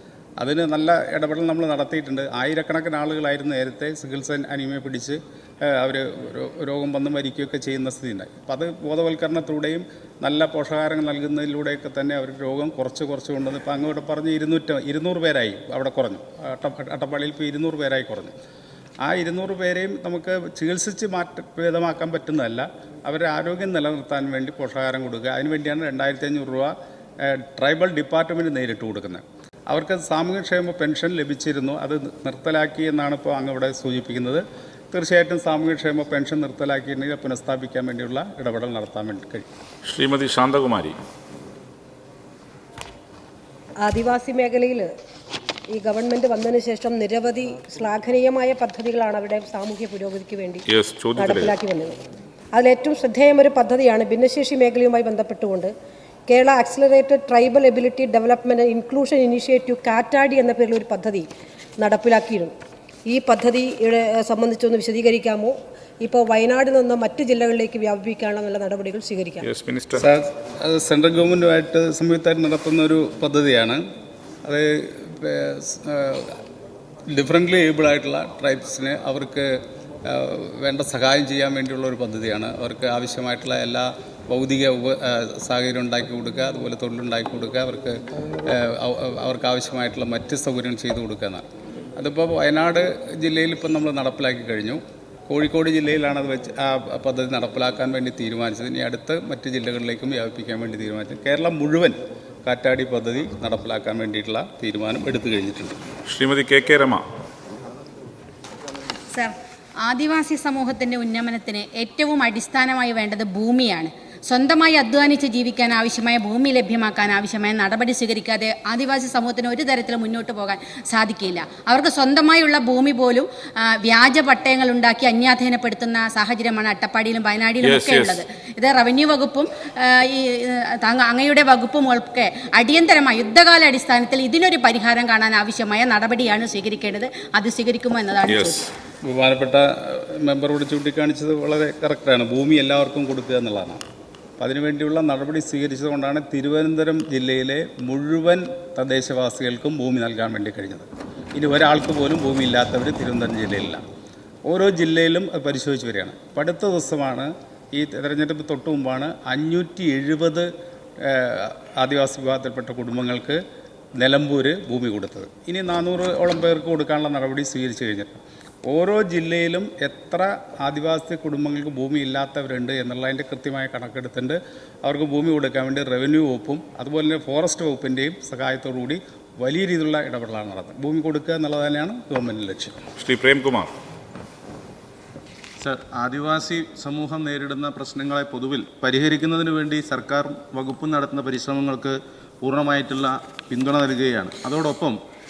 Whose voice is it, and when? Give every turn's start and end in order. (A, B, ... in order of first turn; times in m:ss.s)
0:00.4-0:18.3 A
0:19.0-0:39.5 A
0:39.8-0:41.0 B
0:43.8-0:44.9 C
0:45.7-0:50.6 C
0:50.7-0:51.6 B
0:51.2-0:52.0 C
0:52.5-0:55.7 C
0:56.3-1:01.3 C
1:01.8-1:02.6 C
1:03.1-1:09.4 C
1:09.4-1:10.0 B
1:10.0-1:13.8 A
1:14.4-1:16.4 A
1:17.1-1:31.5 A
1:32.0-1:45.8 A
1:46.1-1:47.0 B
1:49.1-2:18.6 D
2:07.6-2:08.2 B
2:18.3-2:18.7 B
2:19.1-2:23.8 A
2:24.4-2:33.8 A
2:34.5-2:40.5 A
2:41.0-2:43.4 A
2:44.0-3:02.8 A
3:03.0-3:03.7 B
3:05.6-3:15.0 E